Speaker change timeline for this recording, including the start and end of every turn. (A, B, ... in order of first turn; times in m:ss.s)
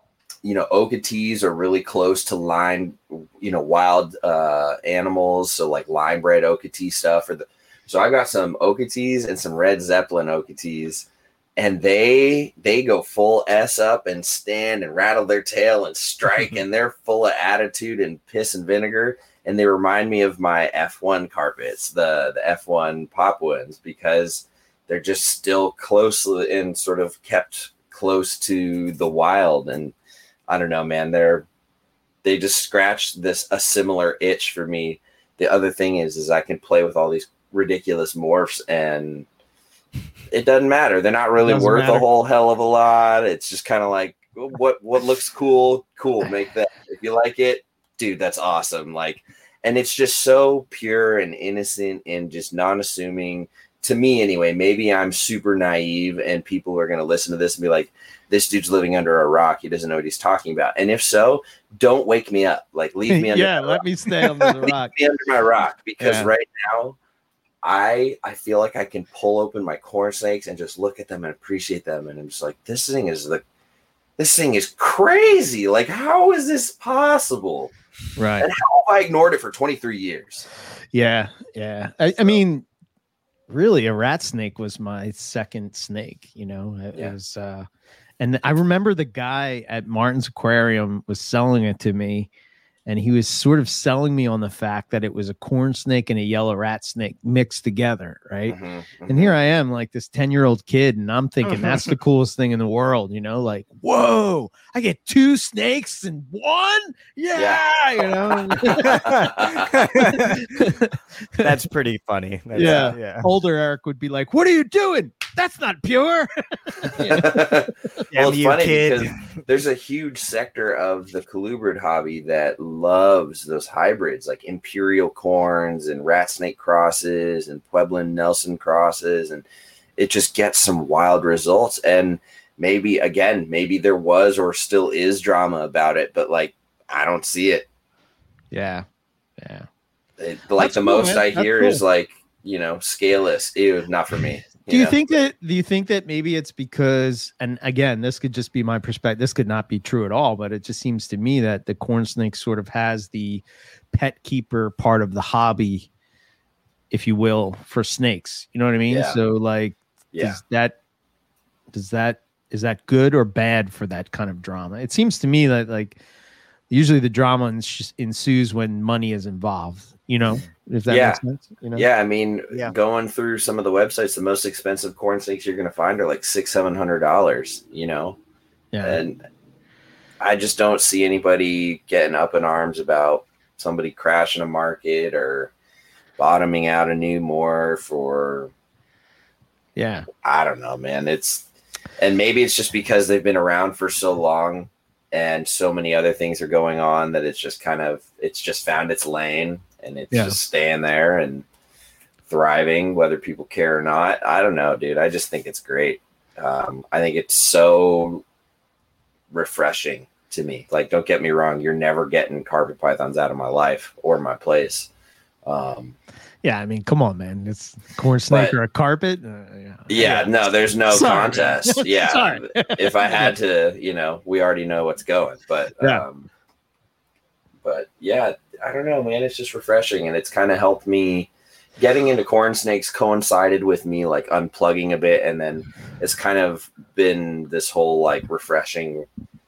0:00.4-0:30.0 A
0:30.5-0:31.5 A
0:32.2-0:39.3 A
0:40.3-1:03.8 A
0:41.4-0:42.1 B
1:03.1-1:04.9 B
1:04.6-1:07.0 A
1:06.0-1:06.3 B
1:07.6-1:13.4 A
1:14.2-1:17.7 A
1:18.2-1:18.5 B
1:18.4-1:20.5 A
1:20.9-1:22.7 B
1:23.5-1:27.7 B
1:28.2-1:32.3 B
1:32.9-1:38.6 B
1:38.5-1:39.4 A
1:39.1-1:51.4 B
1:47.4-1:49.9 A
1:48.9-1:50.6 C
1:51.4-1:53.3 C
1:52.6-1:57.5 B
1:52.6-1:52.8 A
1:57.0-2:09.4 A
1:58.1-1:59.4 C
2:10.0-2:17.7 A
2:18.5-2:18.9 B
2:19.4-2:19.7 B
2:20.2-2:25.1 A
2:20.6-2:21.8 B
2:24.7-2:35.9 B
2:36.9-2:40.8 B
2:38.9-2:39.2 A
2:40.1-2:40.4 A
2:41.7-2:46.0 B
2:46.7-2:51.9 B
2:50.9-2:51.2 A
2:51.8-2:58.2 A
2:58.7-2:59.0 B
2:58.8-2:59.2 A
3:00.2-3:05.5 A
3:06.2-3:08.5 A
3:09.8-3:10.1 B
3:10.2-3:11.5 A
3:12.0-3:21.4 A
3:20.1-3:20.4 B
3:22.3-3:28.2 A
3:29.3-3:34.9 A
3:35.4-3:36.0 A
3:36.4-3:40.3 B
3:38.3-3:38.6 A
3:39.9-3:46.3 A
3:40.9-3:43.3 B
3:47.6-3:59.1 A